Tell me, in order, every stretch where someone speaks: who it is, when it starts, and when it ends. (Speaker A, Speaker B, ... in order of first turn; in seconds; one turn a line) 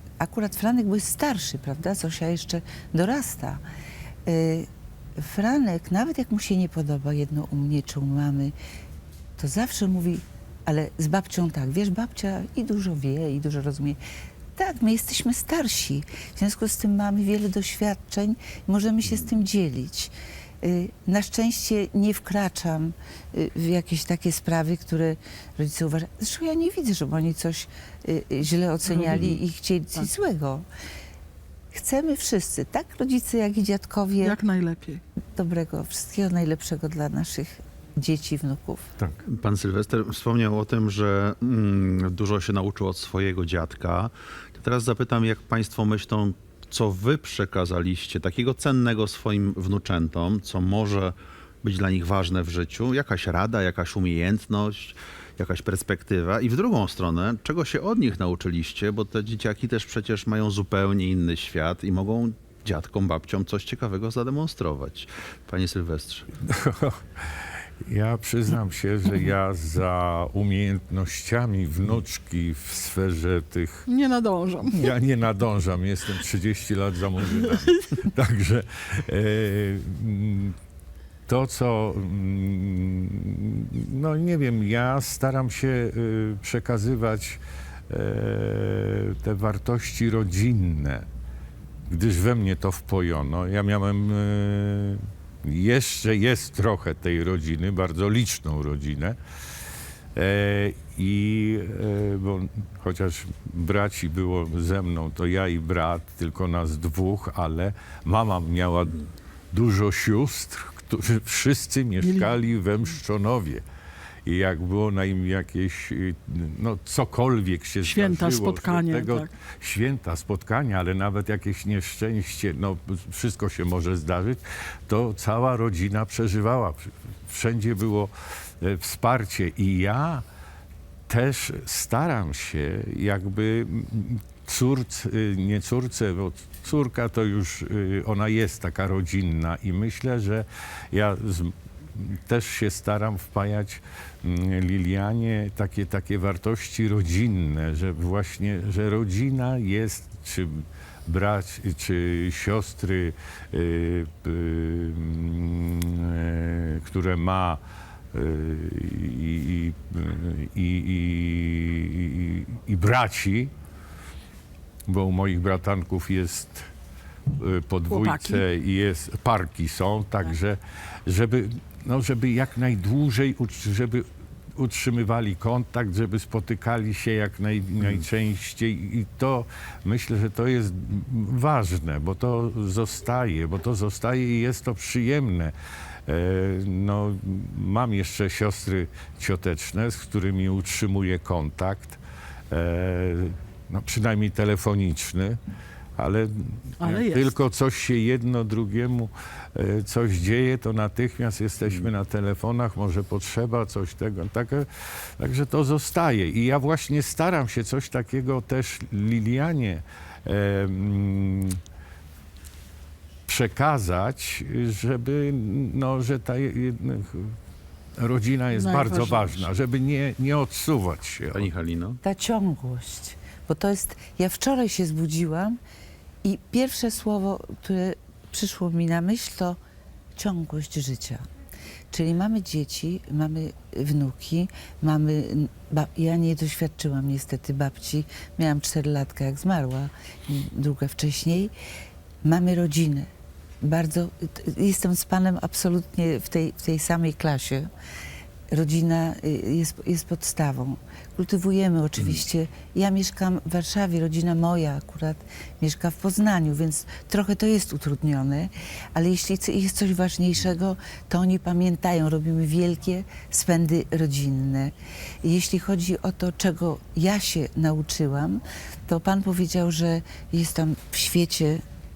Speaker A: 0.2-3.6
Speaker A: 4.2-4.7
Speaker A: 5.2-8.5
Speaker A: 9.4-14.0
Speaker A: 14.6-30.6
Speaker B: 28.9-29.3
Speaker A: 31.7-34.4
Speaker B: 34.2-35.0
Speaker A: 35.3-38.9
Speaker C: 39.2-66.3
Speaker D: 66.4-67.2
Speaker D: 67.8-73.8
Speaker B: 73.8-74.8
Speaker D: 74.7-80.5
Speaker B: 77.3-77.7
Speaker D: 81.3-91.1
Speaker D: 91.9-99.2
Speaker D: 100.1-113.6
Speaker B: 112.0-112.3
Speaker D: 114.2-130.2
Speaker B: 117.8-119.3
Speaker D: 131.1-157.6
Speaker D: 158.1-163.5
Speaker D: 164.9-166.7
Speaker D: 167.3-185.5
Speaker B: 167.9-168.4
Speaker D: 186.1-192.0
Speaker D: 192.5-195.4
Speaker D: 196.0-204.7
Speaker B: 196.8-197.3
Speaker C: 201.6-201.9
Speaker D: 205.2-211.6
Speaker D: 213.3-217.3
Speaker D: 218.0-221.5
Speaker B: 218.5-219.5
Speaker C: 221.3-222.0
Speaker A: 222.0-225.6
Speaker A: 226.2-229.6
Speaker A: 230.2-231.2
Speaker A: 231.9-241.5
Speaker A: 242.2-243.1
Speaker A: 243.6-247.7
Speaker A: 248.5-271.6